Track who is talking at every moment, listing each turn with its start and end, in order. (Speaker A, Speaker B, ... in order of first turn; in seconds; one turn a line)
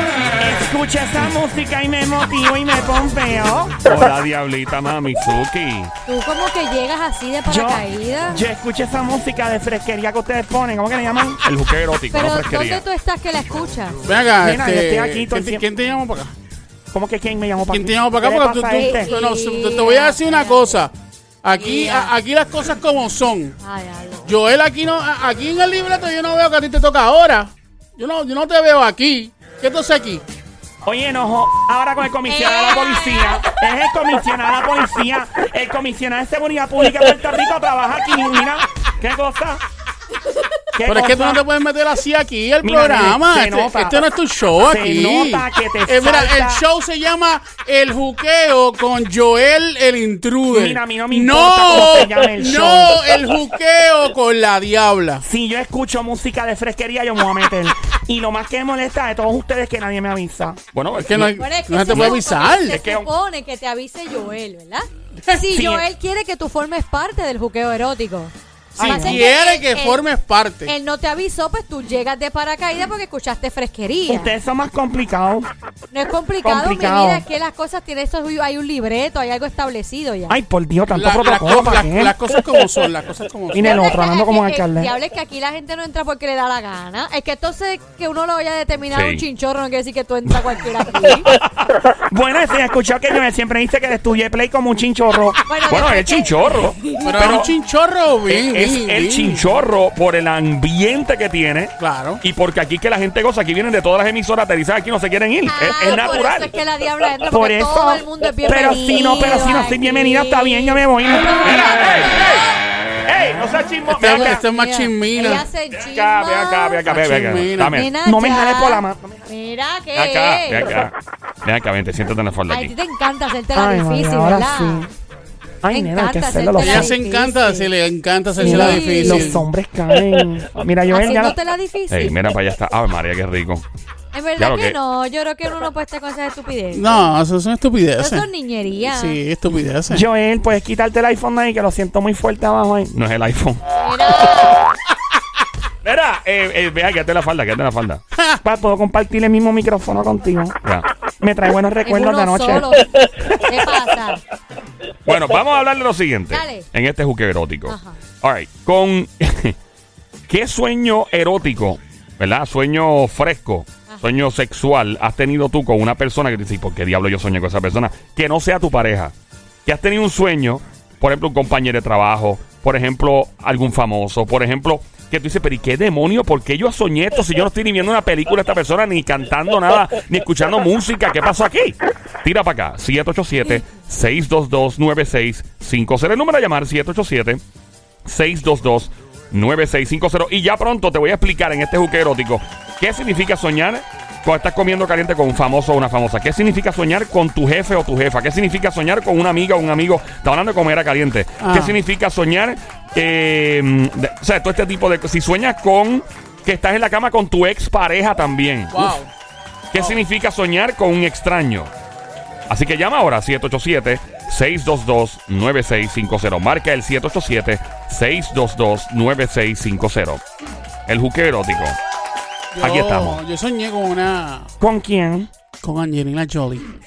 Speaker A: 0.4-3.8
Speaker B: 3.9-5.9
Speaker C: 6.1-8.4
Speaker A: 7.5-11.4
Speaker B: 11.4-12.8
Speaker C: 12.1-14.0
Speaker D: 14.0-16.3
Speaker A: 14.4-15.6
Speaker A: 16.9-19.1
Speaker D: 17.7-23.6
Speaker C: 18.7-20.8
Speaker C: 21.6-22.1
Speaker C: 23.6-24.3
Speaker D: 24.2-30.2
Speaker A: 30.9-39.6
Speaker C: 32.3-33.6
Speaker A: 40.8-41.4
Speaker D: 40.9-55.2
Speaker A: 42.6-44.0
Speaker A: 44.6-46.6
Speaker A: 50.5-53.0
Speaker A: 55.2-60.6
Speaker B: 60.7-61.5
Speaker D: 61.0-62.8
Speaker C: 61.4-70.0
Speaker A: 62.7-63.1
Speaker A: 65.5-65.9
Speaker D: 68.8-70.7
Speaker A: 68.8-69.2
Speaker C: 70.7-74.3
Speaker A: 74.1-75.5
Speaker C: 75.9-80.4
Speaker A: 76.4-77.2
Speaker A: 80.3-82.2
Speaker D: 80.9-83.7
Speaker A: 83.5-84.9
Speaker C: 83.6-91.3
Speaker B: 88.9-89.2
Speaker B: 91.2-91.8
Speaker A: 91.9-95.4
Speaker C: 95.5-97.4
Speaker B: 95.7-97.5
Speaker D: 97.0-99.5
Speaker B: 98.3-106.5
Speaker D: 101.8-102.2
Speaker C: 105.5-112.6
Speaker A: 107.3-111.6
Speaker B: 111.4-112.5
Speaker B: 113.1-114.4
Speaker D: 113.9-115.5
Speaker C: 114.1-116.8
Speaker B: 115.8-117.9
Speaker D: 116.8-117.8
Speaker C: 117.7-120.8
Speaker A: 118.0-119.2
Speaker B: 120.0-122.7
Speaker C: 122.5-124.9
Speaker A: 123.5-124.9
Speaker A: 125.6-127.0
Speaker C: 125.7-127.7
Speaker D: 126.6-129.4
Speaker C: 128.4-129.4
Speaker A: 128.4-131.4
Speaker C: 130.9-132.2
Speaker B: 131.9-133.7
Speaker C: 134.1-137.1
Speaker B: 134.4-134.8
Speaker D: 136.7-138.3
Speaker C: 138.0-139.2
Speaker D: 138.9-140.1
Speaker A: 139.9-142.9
Speaker B: 142.9-143.6
Speaker C: 143.7-144.7
Speaker B: 145.8-148.0
Speaker A: 148.4-150.6
Speaker A: 151.2-152.7
Speaker C: 151.8-154.2
Speaker B: 155.1-159.6
Speaker C: 156.3-156.7
Speaker C: 157.7-158.0
Speaker B: 160.3-169.1
Speaker B: 169.7-187.4
Speaker B: 188.1-209.0
Speaker D: 201.4-201.8
Speaker D: 208.7-209.1
Speaker B: 209.7-211.7
Speaker B: 212.5-220.2
Speaker B: 220.9-221.8
Speaker D: 222.5-224.5
Speaker B: 222.6-223.2
Speaker A: 224.6-225.3
Speaker D: 225.6-226.7